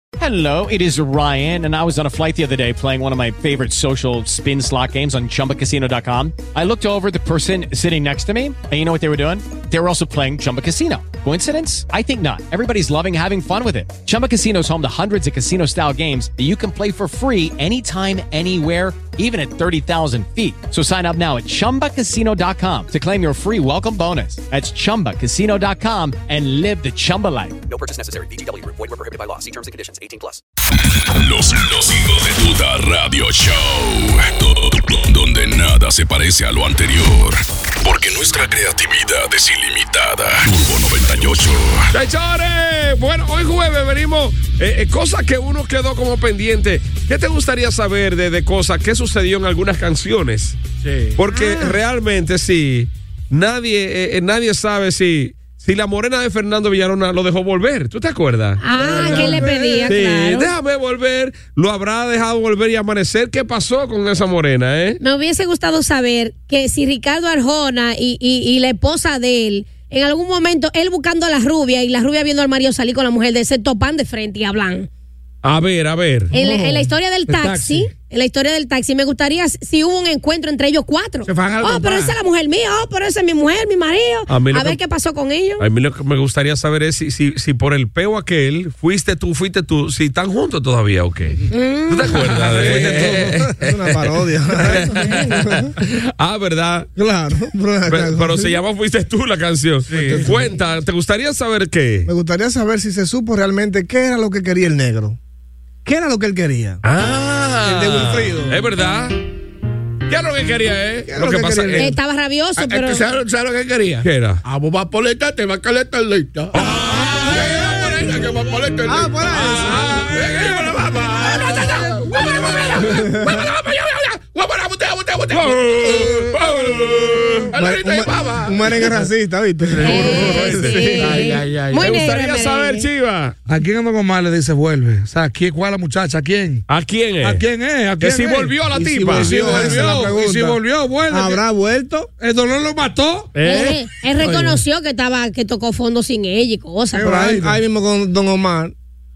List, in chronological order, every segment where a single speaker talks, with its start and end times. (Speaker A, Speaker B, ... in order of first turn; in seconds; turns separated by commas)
Speaker A: 0.2-27.6, Speaker B: 27.6-30.4, Speaker C: 30.8-41.9, Speaker D: 41.9-50.6, Speaker E: 50.8-51.2, Speaker D: 51.2-65.0, Speaker F: 51.3-51.8, Speaker F: 58.6-60.5, Speaker E: 58.8-59.3, Speaker G: 59.0-59.9, Speaker F: 65.0-74.9, Speaker D: 75.4-76.3, Speaker G: 76.3-76.9, Speaker F: 76.3-85.7, Speaker H: 77.3-77.9, Speaker E: 81.2-82.1, Speaker D: 84.3-84.8, Speaker D: 85.6-96.9, Speaker F: 91.5-92.2, Speaker H: 92.5-93.4, Speaker G: 92.6-95.8, Speaker G: 97.0-98.5, Speaker D: 97.9-102.1, Speaker G: 100.0-100.6, Speaker G: 102.1-105.2, Speaker G: 105.8-106.8, Speaker D: 106.8-109.2, Speaker G: 107.7-108.6, Speaker D: 110.1-112.0, Speaker G: 111.1-111.9, Speaker F: 111.8-113.0, Speaker E: 112.6-129.0, Speaker D: 114.0-114.4, Speaker D: 116.5-118.0, Speaker G: 118.9-119.9, Speaker D: 119.3-121.7, Speaker G: 122.9-123.3, Speaker D: 125.3-127.5, Speaker G: 127.5-131.2, Speaker E: 129.7-131.9, Speaker F: 129.8-132.8, Speaker D: 129.9-131.1, Speaker D: 131.8-133.3, Speaker H: 133.5-136.6, Speaker D: 136.7-137.4, Speaker H: 137.2-138.6, Speaker D: 138.0-139.9, Speaker G: 138.7-142.1, Speaker H: 139.1-141.4, Speaker H: 142.2-143.3, Speaker D: 143.3-143.8, Speaker F: 143.4-147.3, Speaker G: 146.9-148.7, Speaker H: 147.1-147.6